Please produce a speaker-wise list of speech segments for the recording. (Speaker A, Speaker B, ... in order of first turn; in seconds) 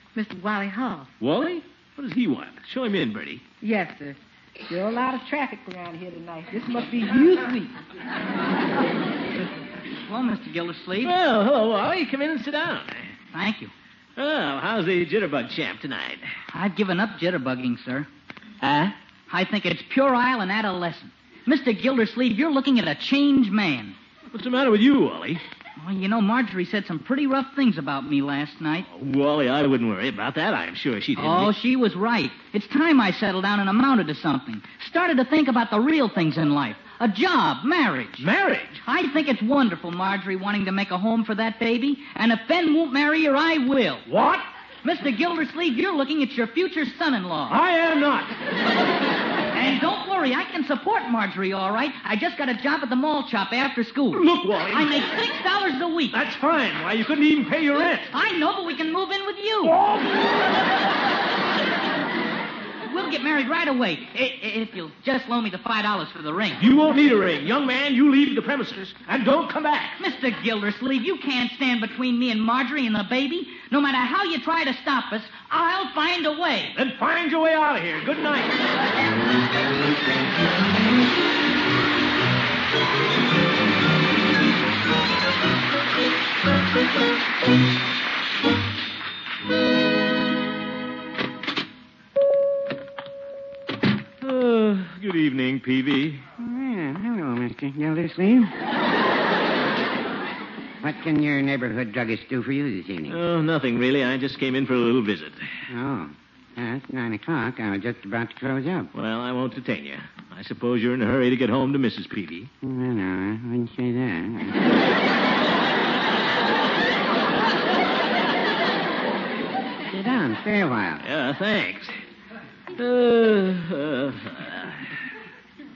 Speaker A: 0.1-1.1, 3.6-7.7
Speaker B: 1.2-3.4, 11.0-13.1, 14.2-16.3, 18.6-18.9, 24.3-25.4, 28.9-31.5, 38.2-38.8, 44.0-44.5, 47.5-48.3, 54.1-55.0, 56.1-58.1, 59.6-60.3, 66.6-70.0, 76.7-78.6, 94.2-96.2, 103.1-105.4, 108.9-112.5, 121.0-121.9, 122.8-124.8
Speaker C: 10.1-11.1, 13.3-13.7, 16.5-18.1, 19.3-23.9, 25.8-28.9, 31.1-38.3, 38.8-44.0, 44.8-47.5, 49.5-56.1, 58.1-59.8, 62.9-66.6, 70.0-76.7
Speaker D: 96.4-98.5, 100.8-103.2, 105.7-108.9, 112.6-114.6, 119.9-121.0